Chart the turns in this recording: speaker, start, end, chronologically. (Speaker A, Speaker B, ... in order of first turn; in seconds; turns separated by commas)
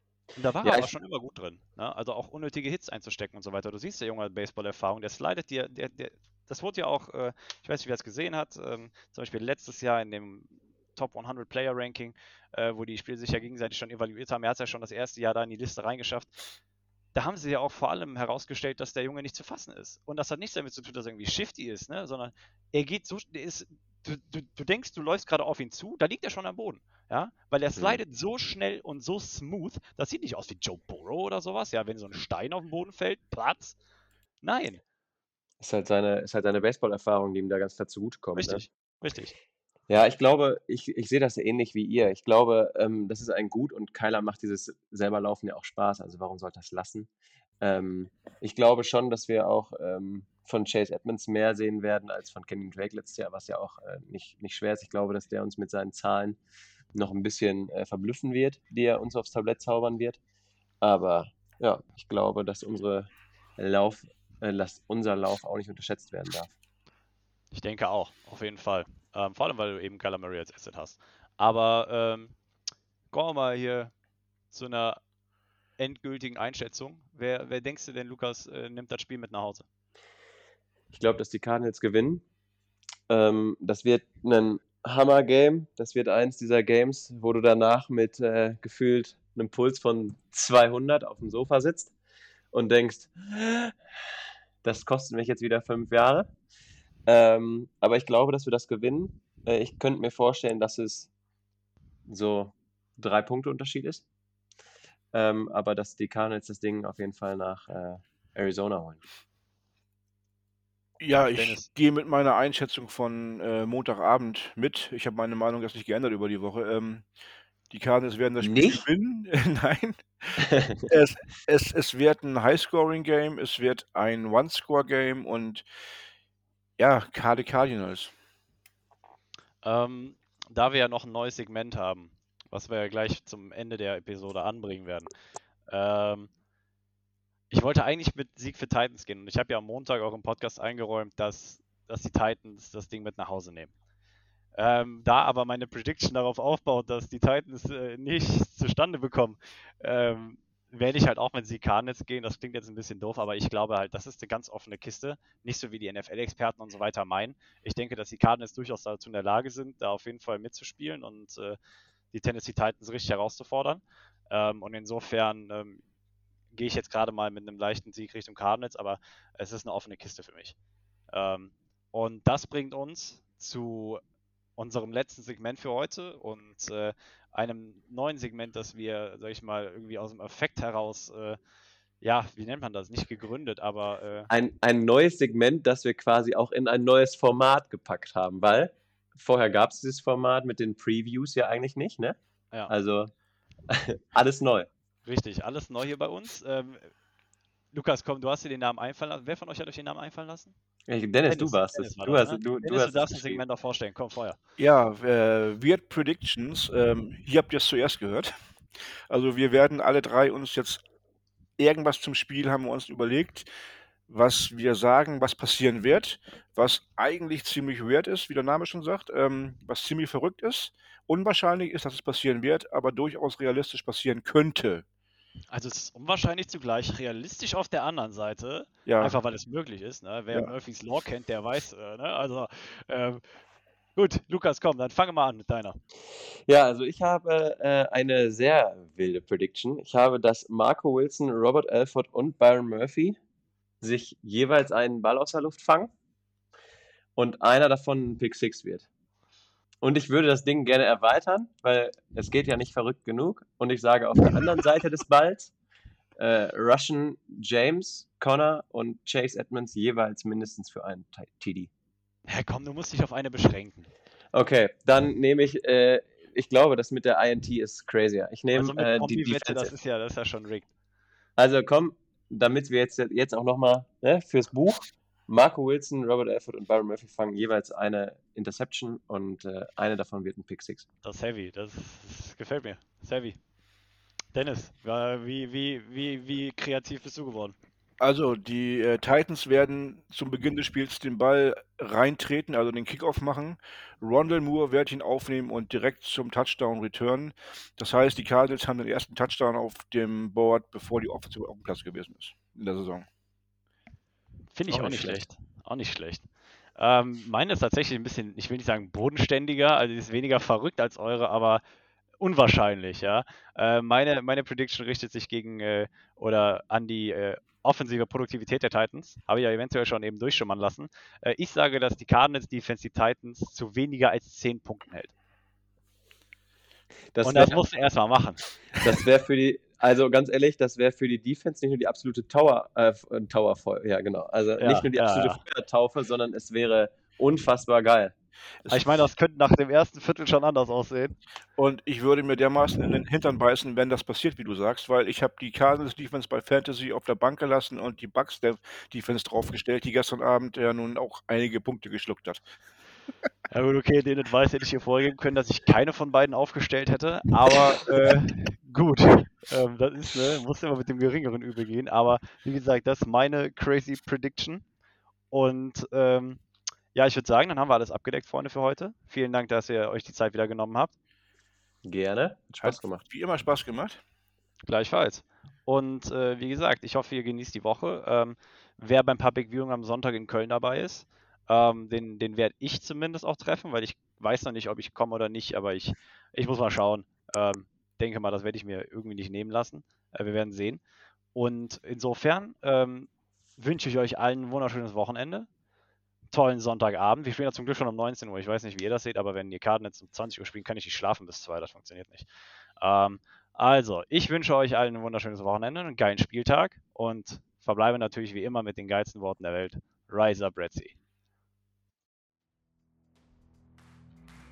Speaker A: 0.4-16.4, Speaker B: 0.6-0.9, Speaker A: 17.1-33.8, Speaker A: 34.4-34.8, Speaker B: 35.6-38.6, Speaker A: 38.4-39.4, Speaker B: 39.9-47.1, Speaker B: 47.6-56.4, Speaker B: 56.9-60.2, Speaker B: 60.8-66.5, Speaker A: 67.5-72.4, Speaker A: 73.1-73.9, Speaker A: 74.5-75.0, Speaker A: 75.8-79.7, Speaker B: 80.9-82.2, Speaker B: 83.1-91.9, Speaker B: 92.5-93.8, Speaker B: 94.6-96.3, Speaker B: 97.1-101.1, Speaker B: 102.1-104.0, Speaker B: 105.1-109.0, Speaker C: 111.0-117.1, Speaker A: 111.3-111.7, Speaker C: 117.7-125.6, Speaker B: 118.4-118.8, Speaker B: 120.4-120.9, Speaker C: 126.8-128.1, Speaker A: 129.6-135.1, Speaker A: 135.7-136.3, Speaker A: 137.5-143.7, Speaker A: 144.6-161.6, Speaker A: 162.1-165.8, Speaker A: 166.5-170.6, Speaker A: 171.1-174.0, Speaker A: 174.6-181.4, Speaker A: 182.0-184.3, Speaker B: 184.3-193.1, Speaker B: 193.7-194.7, Speaker A: 195.1-196.9, Speaker A: 197.7-200.6, Speaker B: 200.9-203.4, Speaker A: 201.3-204.4, Speaker C: 204.6-208.3, Speaker C: 209.1-210.8, Speaker C: 211.6-213.5, Speaker C: 214.1-224.8, Speaker A: 225.5-233.2, Speaker C: 228.9-229.2, Speaker A: 234.0-235.8, Speaker B: 236.5-243.2, Speaker B: 243.8-245.9, Speaker B: 247.2-248.9, Speaker B: 249.8-255.5, Speaker B: 256.2-261.7, Speaker A: 262.3-263.9, Speaker B: 264.3-269.7, Speaker A: 268.5-270.7, Speaker B: 271.4-280.9, Speaker A: 281.0-283.4, Speaker A: 284.3-287.6, Speaker C: 288.0-303.1, Speaker A: 304.5-311.6, Speaker B: 304.7-305.2, Speaker A: 312.2-325.1, Speaker B: 327.1-327.6, Speaker A: 327.2-328.4, Speaker B: 328.8-338.1, Speaker A: 334.6-335.4, Speaker A: 338.7-341.2, Speaker C: 341.6-352.4, Speaker A: 353.5-364.6, Speaker C: 357.9-358.2, Speaker A: 365.3-366.4, Speaker A: 366.9-370.9, Speaker B: 371.9-373.0, Speaker C: 372.6-374.0, Speaker A: 374.7-390.8, Speaker A: 391.4-395.5, Speaker A: 396.3-402.3, Speaker A: 402.8-410.9